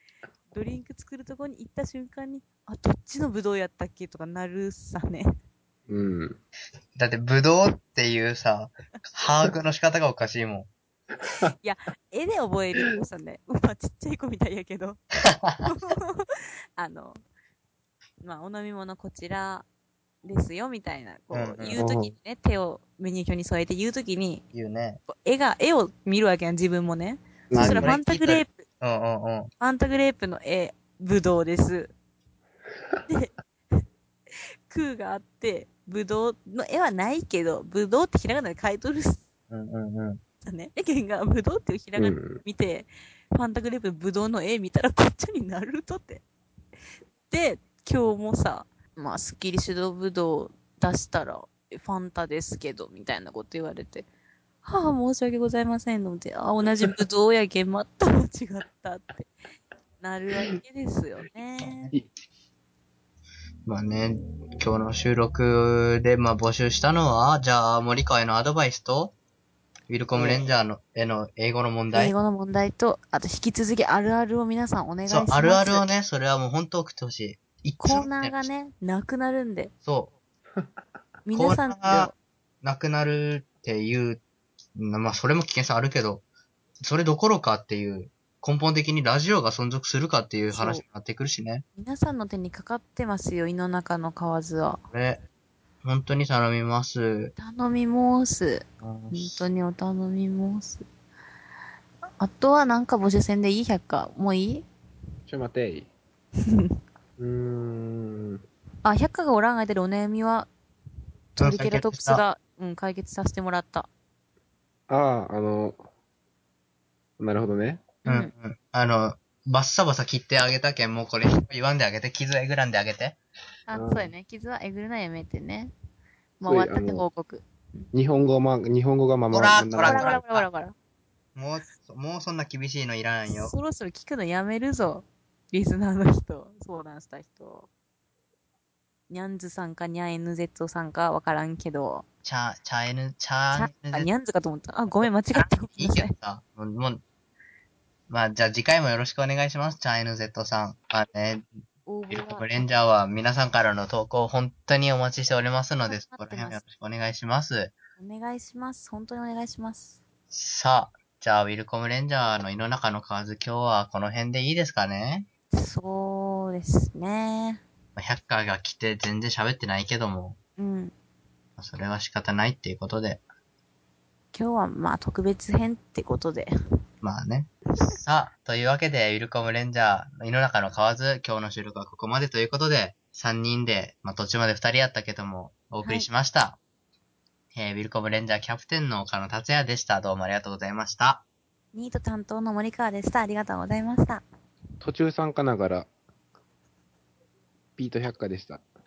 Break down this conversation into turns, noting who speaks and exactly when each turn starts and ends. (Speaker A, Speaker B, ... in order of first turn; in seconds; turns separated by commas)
Speaker A: 0.5-5.3, Speaker B: 5.9-6.4, Speaker C: 7.0-10.7, Speaker B: 11.2-11.5, Speaker A: 11.6-15.0, Speaker C: 15.2-15.6, Speaker A: 15.6-16.2, Speaker A: 16.8-17.2, Speaker A: 18.2-19.6, Speaker A: 20.2-24.4, Speaker C: 21.3-21.8, Speaker B: 21.8-22.1, Speaker C: 24.5-25.0, Speaker A: 25.1-28.6, Speaker C: 27.5-29.5, Speaker B: 27.5-28.0, Speaker A: 29.6-31.9, Speaker A: 34.7-39.2, Speaker C: 39.5-40.2, Speaker A: 40.4-46.2, Speaker B: 42.0-42.4, Speaker A: 47.3-54.0, Speaker A: 54.6-59.3, Speaker A: 60.0-61.9, Speaker C: 61.6-61.9, Speaker C: 63.6-69.1, Speaker C: 69.9-72.1, Speaker A: 71.9-75.9, Speaker C: 75.1-78.5, Speaker A: 77.8-79.7, Speaker C: 79.8-80.1, Speaker A: 81.2-82.1, Speaker C: 81.3-82.1, Speaker C: 82.6-84.2, Speaker C: 84.7-86.2, Speaker C: 86.8-91.6, Speaker A: 90.5-90.8, Speaker A: 91.8-94.8, Speaker C: 94.9-95.2, Speaker C: 95.8-97.3, Speaker A: 97.4-100.8, Speaker C: 98.8-99.4, Speaker A: 102.2-104.7, Speaker B: 105.3-105.9, Speaker A: 106.5-106.7, Speaker B: 107.2-108.4, Speaker A: 108.8-110.5, Speaker A: 111.3-113.9, Speaker C: 111.4-112.2, Speaker B: 114.9-115.8, Speaker B: 117.2-117.9, Speaker A: 118.0-118.3, Speaker C: 118.0-123.2, Speaker A: 123.7-125.7, Speaker B: 123.7-124.1, Speaker A: 126.4-127.8, Speaker B: 126.4-127.0, Speaker B: 127.9-130.2, Speaker C: 129.3-130.4, Speaker A: 129.8-130.7, Speaker C: 131.3-133.5, Speaker A: 133.3-137.7, Speaker A: 139.1-142.0, Speaker C: 142.2-144.1, Speaker A: 143.5-146.1, Speaker C: 144.9-147.0, Speaker C: 148.1-157.8, Speaker A: 151.8-152.6, Speaker A: 155.9-156.6, Speaker A: 158.0-160.0, Speaker C: 160.3-165.3, Speaker A: 165.5-167.6, Speaker C: 167.9-170.4, Speaker A: 170.6-170.9, Speaker C: 171.6-173.2, Speaker A: 174.3-176.5, Speaker C: 177.0-186.6, Speaker C: 187.5-191.2, Speaker A: 191.7-194.2, Speaker B: 194.8-195.9, Speaker B: 197.8-198.6